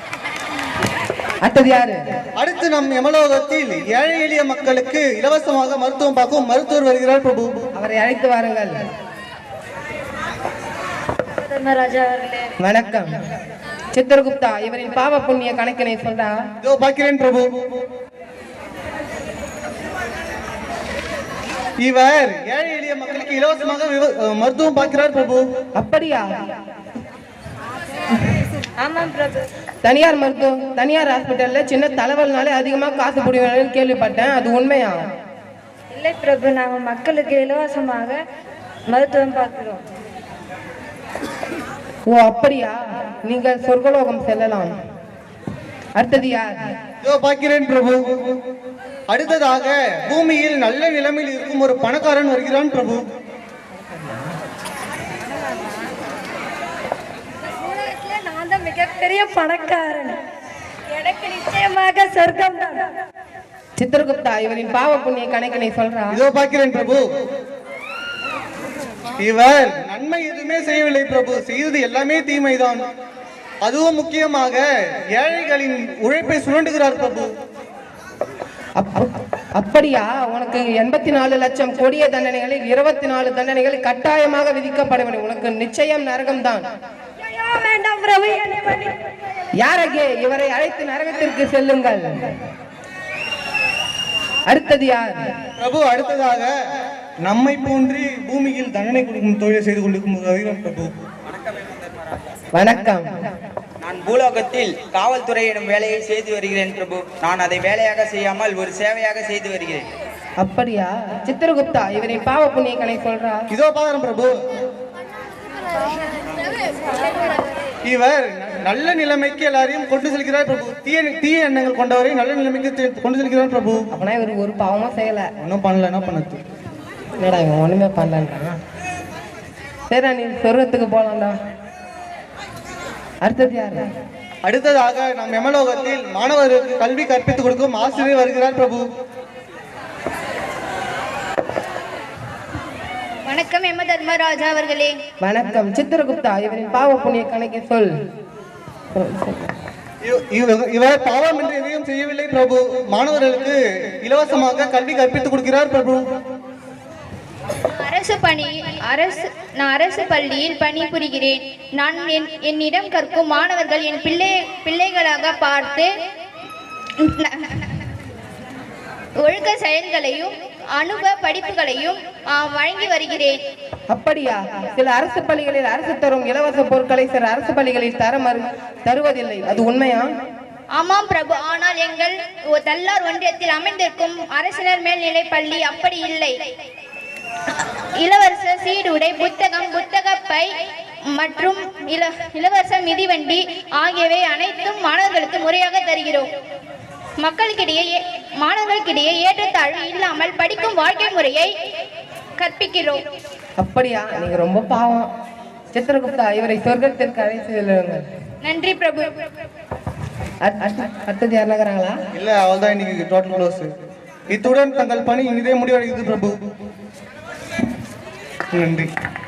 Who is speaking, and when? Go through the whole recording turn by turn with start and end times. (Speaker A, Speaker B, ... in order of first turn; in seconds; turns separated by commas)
Speaker A: 1.4-2.0, Speaker B: 2.4-7.7, Speaker A: 7.8-8.8, Speaker C: 11.4-12.5, Speaker A: 12.6-13.1, Speaker A: 13.9-16.4, Speaker B: 16.6-17.6, Speaker B: 21.8-25.4, Speaker A: 25.8-26.2, Speaker C: 28.8-29.5, Speaker A: 29.8-35.0, Speaker C: 35.9-38.2, Speaker C: 38.9-39.8, Speaker A: 42.1-44.7, Speaker A: 46.0-46.7, Speaker B: 47.0-48.4, Speaker B: 49.1-53.0, Speaker A: 53.8-54.3, Speaker C: 57.7-60.2, Speaker C: 60.9-62.9, Speaker A: 63.8-66.2, Speaker B: 66.1-67.0, Speaker B: 69.2-72.8, Speaker B: 73.6-74.6, Speaker B: 75.1-77.3, Speaker A: 78.8-86.6, Speaker C: 87.3-88.9, Speaker A: 89.6-92.3, Speaker A: 94.5-95.3, Speaker B: 95.6-96.5, Speaker B: 97.2-100.9, Speaker A: 102.5-103.0, Speaker D: 103.8-109.8, Speaker A: 110.4-113.5, Speaker B: 113.5-114.3, Speaker B: 117.8-123.8, Speaker A: 123.9-125.3, Speaker B: 125.4-126.4, Speaker A: 127.2-128.6, Speaker A: 129.9-131.3, Speaker A: 133.2-133.9, Speaker B: 134.4-138.8, Speaker E: 143.2-145.0, Speaker A: 145.2-147.9, Speaker A: 148.9-149.5, Speaker B: 150.0-156.0, Speaker E: 157.7-165.9, Speaker E: 167.0-167.8, Speaker E: 169.2-173.4, Speaker A: 173.9-180.1, Speaker E: 180.7-186.4, Speaker E: 187.9-190.5, Speaker E: 191.1-196.3, Speaker E: 197.2-201.5, Speaker E: 202.4-203.0, Speaker A: 203.6-205.1, Speaker A: 205.7-208.0, Speaker E: 208.4-209.2, Speaker A: 210.4-211.9, Speaker B: 212.1-213.7, Speaker B: 214.3-216.4, Speaker B: 218.5-218.9